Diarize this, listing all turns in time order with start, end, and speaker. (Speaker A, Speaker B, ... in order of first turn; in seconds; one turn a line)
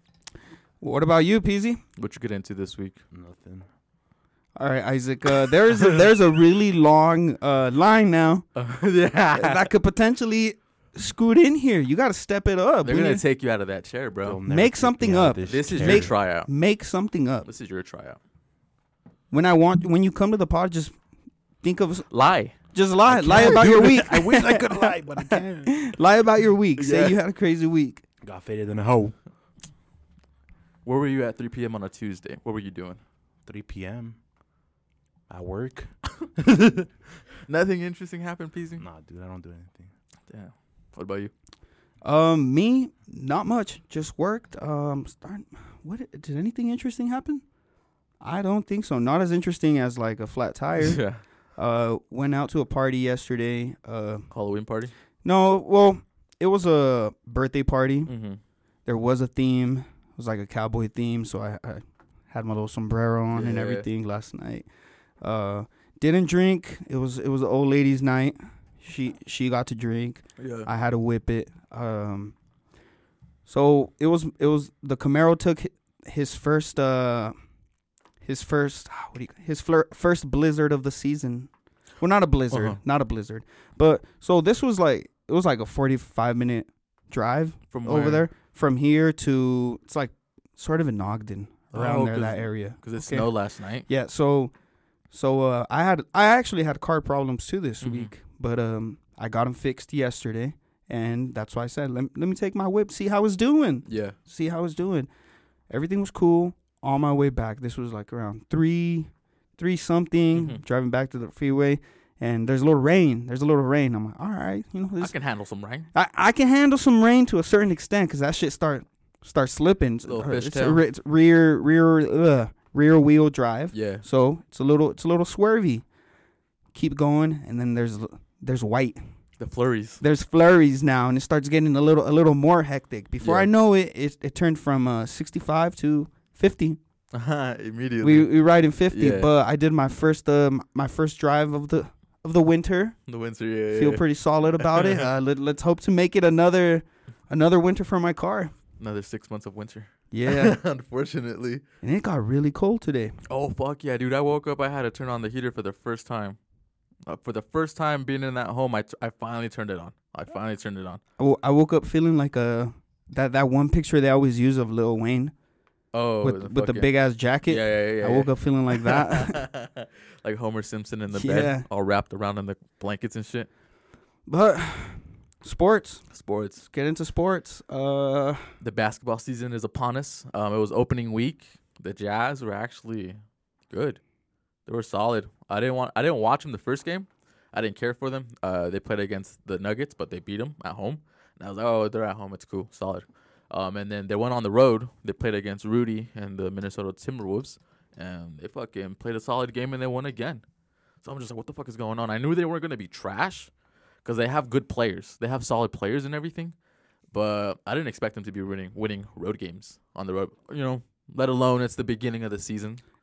Speaker A: 0.8-1.8
Speaker B: 2.0-3.0
Speaker C: 3.1-3.7
Speaker A: 4.5-8.4
Speaker B: 8.5-9.7
Speaker A: 9.3-13.2
Speaker B: 12.8-14.4
Speaker C: 14.2-16.1
Speaker A: 14.5-17.5
Speaker B: 15.5-16.5
Speaker B: 17.4-18.2
Speaker A: 19.3-20.9
Speaker A: 21.6-22.1
Speaker B: 22.1-22.6
Speaker A: 22.7-28.0
Speaker C: 23.1-25.8
Speaker B: 26.8-27.2
Speaker C: 28.2-29.2
Speaker B: 30.9-33.0
Speaker C: 33.5-34.1
Speaker C: 35.3-36.9
Speaker B: 37.5-38.8
Speaker C: 38.8-39.9
Speaker B: 40.3-41.3
Speaker A: 42.0-47.4
Speaker A: 48.2-51.0
Speaker B: 50.8-51.2
Speaker A: 51.5-54.3
Speaker B: 54.3-54.9
Speaker A: 55.2-58.1
Speaker B: 58.1-58.4
Speaker A: 58.9-64.7
Speaker B: 63.3-63.9
Speaker A: 65.2-72.3
Speaker B: 70.4-70.7
Speaker A: 73.5-77.3
Speaker A: 78.2-93.3
Speaker B: 82.5-82.8
Speaker B: 87.7-88.3
Speaker B: 91.7-93.9
Speaker A: 93.9-94.5
Speaker A: 95.1-105.1
Speaker B: 97.8-98.1
Speaker B: 103.9-104.2
Speaker A: 105.7-115.1
Speaker B: 110.3-110.6
Speaker B: 115.0-115.9
Speaker A: 115.9-125.8
Speaker B: 120.0-120.8
Speaker B: 123.7-124.0
Speaker A: 126.7-129.0
Speaker B: 129.4-130.0
Speaker A: 130.0-136.8
Speaker B: 133.2-133.5
Speaker B: 137.1-138.3
Speaker A: 138.0-142.9
Speaker B: 138.9-139.3
Speaker B: 143.1-144.0
Speaker A: 143.7-148.5
Speaker B: 144.6-145.1
Speaker B: 148.8-151.6
Speaker A: 150.1-150.6
Speaker A: 151.8-153.2
Speaker B: 153.3-156.4
Speaker B: 157.1-161.0
Speaker A: 161.2-165.3
Speaker B: 165.9-166.9
Speaker A: 166.2-169.4
Speaker B: 167.4-173.5
Speaker A: 171.1-171.7
Speaker A: 174.2-176.1
Speaker B: 176.1-176.6
Speaker A: 176.6-178.5
Speaker B: 178.6-183.2
Speaker B: 183.7-184.0
Speaker B: 184.7-200.4
Speaker B: 201.0-203.5
Speaker B: 204.0-206.5
Speaker B: 207.1-212.8